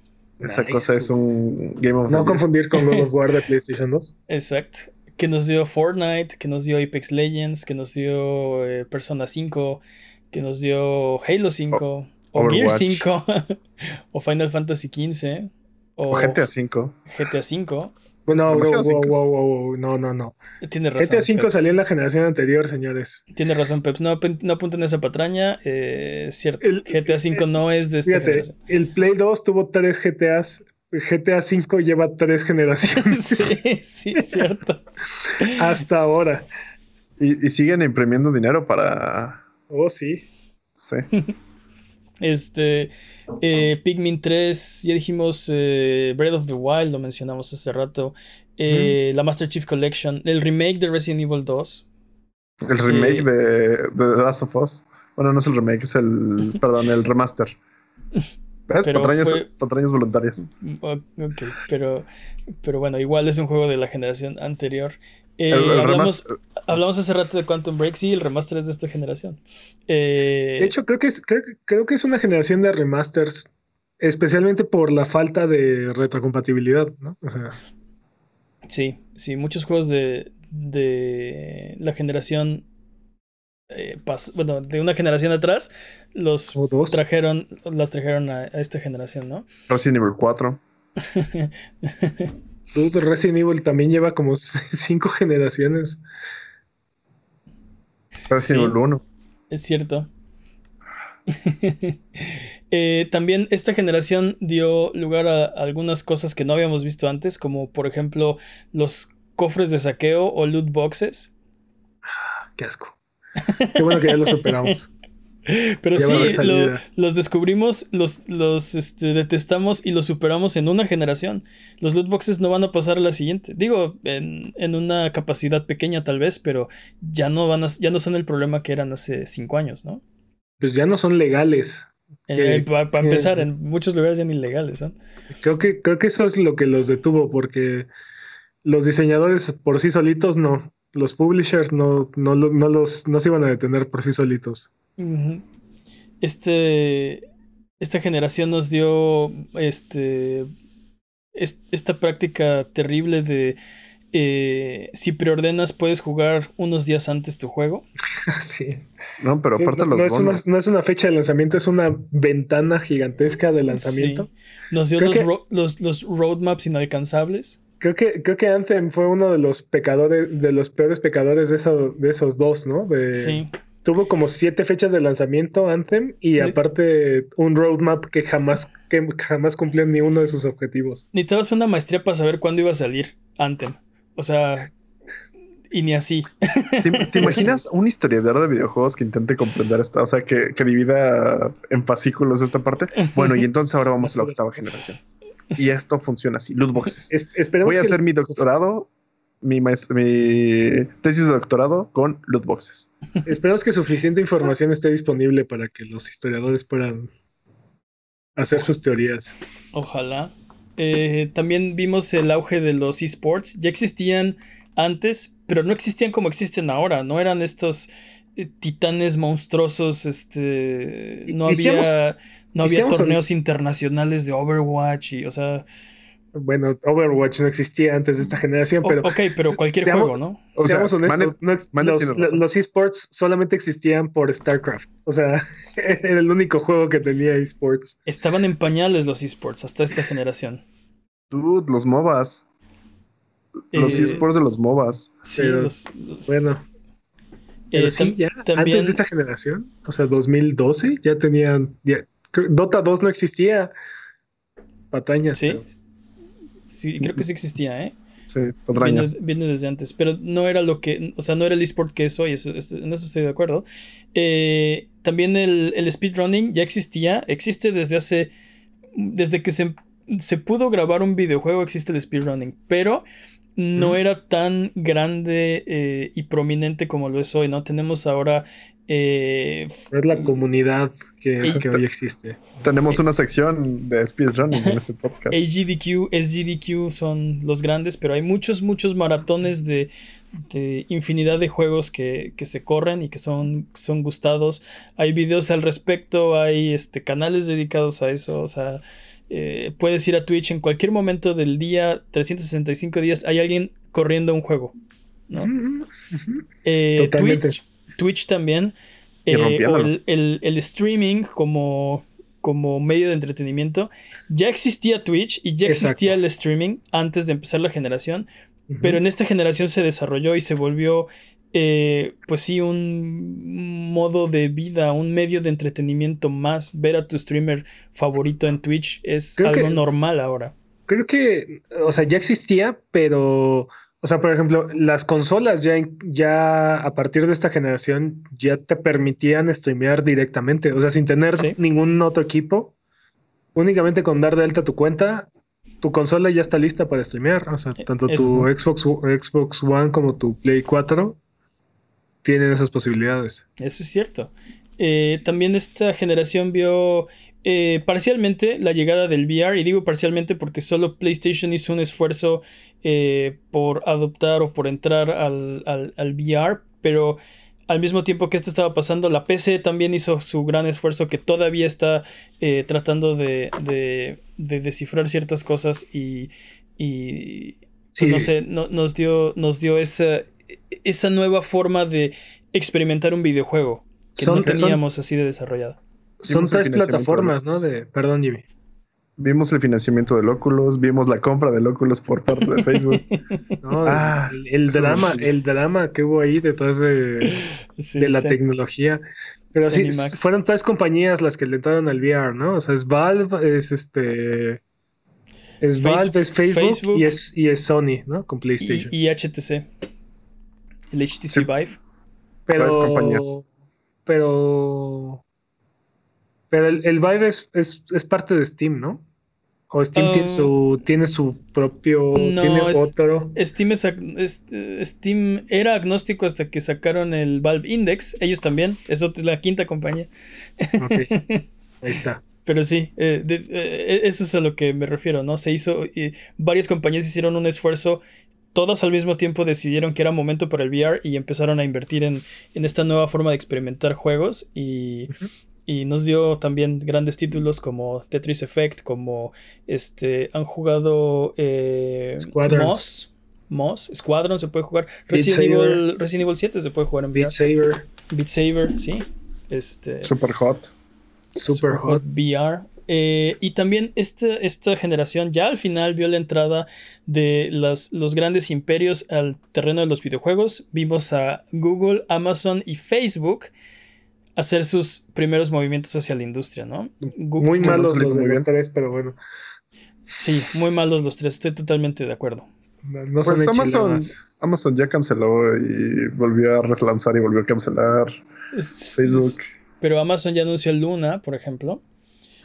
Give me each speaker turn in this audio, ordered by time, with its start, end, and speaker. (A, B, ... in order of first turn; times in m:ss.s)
0:00.4-0:02.4 A
0:00.4-0:01.1 B
0:02.1-0:04.1 B
0:02.8-0:03.0 C
0:04.3-0:13.6 C
0:12.3-0:13.0 A
0:14.1-0:16.4 C
0:16.1-0:17.0 A
0:17.1-0:17.9 C
0:18.3-0:20.4 B
0:18.5-0:19.2 A
0:20.6-0:21.7 C
0:21.0-0:23.2 B
0:23.3-0:28.5 C
0:26.6-0:27.5 B
0:28.0-0:33.5 B
0:33.0-0:34.8 C
0:35.5-0:36.5 B
0:37.2-0:39.4 A
0:39.7-0:40.2 B
0:40.8-0:41.1 A
0:42.2-0:51.8 C
0:48.7-0:49.0 B
0:52.6-0:57.5 A
0:52.9-0:53.3 C
0:58.7-1:00.4 A
0:58.8-0:59.5 C
1:00.4-1:02.0 C
1:02.6-1:10.7 C
1:05.5-1:06.3 A
1:10.6-1:13.5 B
1:14.0-1:17.6 B
1:18.7-1:22.6 C
1:23.7-1:29.4 C
1:26.5-1:27.0 B
1:29.7-1:30.6 A
1:31.1-1:32.3 C
1:32.7-1:36.0 B
1:38.3-1:39.0 A
1:38.4-1:38.8 C
1:39.5-1:40.1 C
1:41.3-1:51.3 C
1:52.6-1:53.0 B
1:53.5-1:54.7 C
1:53.7-1:54.9 B
1:55.5-2:10.0 C
1:56.0-1:56.8 B
1:56.1-1:56.4 A
2:10.6-2:13.5 B
2:12.3-2:15.0 C
2:15.3-2:17.9 B
2:18.6-2:24.7 B
2:25.0-2:25.4 C
2:26.2-2:27.2 C
2:27.8-2:30.5 C
2:31.4-2:33.6 C
2:34.1-2:37.8 C
2:38.3-2:38.8 B
2:39.2-2:40.4 A
2:39.5-2:44.3 B
2:43.8-2:47.6 C
2:45.0-2:45.3 B
2:47.8-3:01.0 B
2:53.1-2:53.5 C
3:01.1-3:04.7 C
3:05.7-3:07.5 C
3:06.8-3:15.0 A
3:13.0-3:13.4 C
3:14.0-3:14.4 B
3:15.5-3:17.1 A
3:17.1-3:18.4 B
3:17.6-3:18.9 A
3:19.4-3:22.9 A
3:23.2-3:27.1 B
3:28.4-3:29.4 B
3:29.7-3:45.6 C
3:41.3-3:42.0 B
3:42.6-3:43.2 B
3:46.3-3:58.0 B
3:48.8-3:50.4 C
3:50.6-3:52.4 A
3:58.1-4:00.6 C
4:01.3-4:02.4 A
4:03.7-4:04.2 C
4:03.7-4:05.1 A
4:03.8-4:04.2 B
4:05.2-4:06.6 C
4:05.4-4:05.7 B
4:06.3-4:06.6 B
4:07.7-4:09.0 C
4:07.7-4:13.7 B
4:14.9-4:15.6 B
4:15.3-4:15.6 C
4:16.7-4:17.9 C
4:18.3-4:19.1 A
4:18.8-4:28.3 C
4:28.9-4:33.0 C
4:33.6-4:39.8 C
4:39.9-4:42.6 B
4:41.4-4:41.8 A
4:42.6-4:45.4 A
4:45.3-4:49.9 C
4:50.5-5:04.7 C
5:05.3-5:06.4 B
5:06.6-5:08.7 C
5:07.0-5:07.6 B
5:09.2-5:18.3 C
5:09.3-5:09.9 A
5:15.6-5:16.2 B
5:18.7-5:19.0 B
5:18.8-5:30.5 C
5:29.4-5:29.8 B
5:30.9-5:42.7 B
5:43.5-5:45.3 B
5:45.8-5:51.2 B
5:48.0-5:48.5 C
5:52.2-5:53.4 B
5:53.6-6:25.8 C
6:17.9-6:18.3 B
6:24.2-6:24.8 B
6:26.2-6:28.4 B
6:26.3-6:27.6 A
6:29.2-6:33.0 A
6:32.4-6:33.2 C
6:33.6-6:39.0 B
6:33.8-6:35.3 A
6:37.2-6:38.4 C
6:39.5-6:44.6 B
6:39.6-6:40.3 C
6:45.6-6:48.9 B
6:45.8-6:47.2 C
6:48.6-6:49.6 C
6:50.9-6:51.8 C
6:52.5-6:53.4 B
6:52.5-6:53.4 A
6:54.0-6:55.2 B
6:56.5-6:59.0 B
6:59.7-7:03.4 B
6:59.9-7:00.5 C
7:02.1-7:10.1 C
7:10.6-7:11.5 C
7:10.8-7:11.1 B
7:11.8-7:12.2 B
7:12.4-7:18.0 C
7:18.5-7:25.1 C
7:25.7-7:37.3 C
7:32.2-7:32.9 B
7:35.1-7:35.8 B
7:37.1-7:37.9 B
7:38.1-7:40.1 C
7:40.0-7:40.7 A
7:41.3-7:42.0 B
7:41.5-7:53.5 C
7:54.4-7:58.0 C
7:57.4-7:59.2 B
7:57.6-7:58.4 A
8:00.2-8:02.5 C
8:02.8-8:04.2 B
8:03.2-8:08.2 A
8:08.5-8:11.8 C
8:09.0-8:09.4 A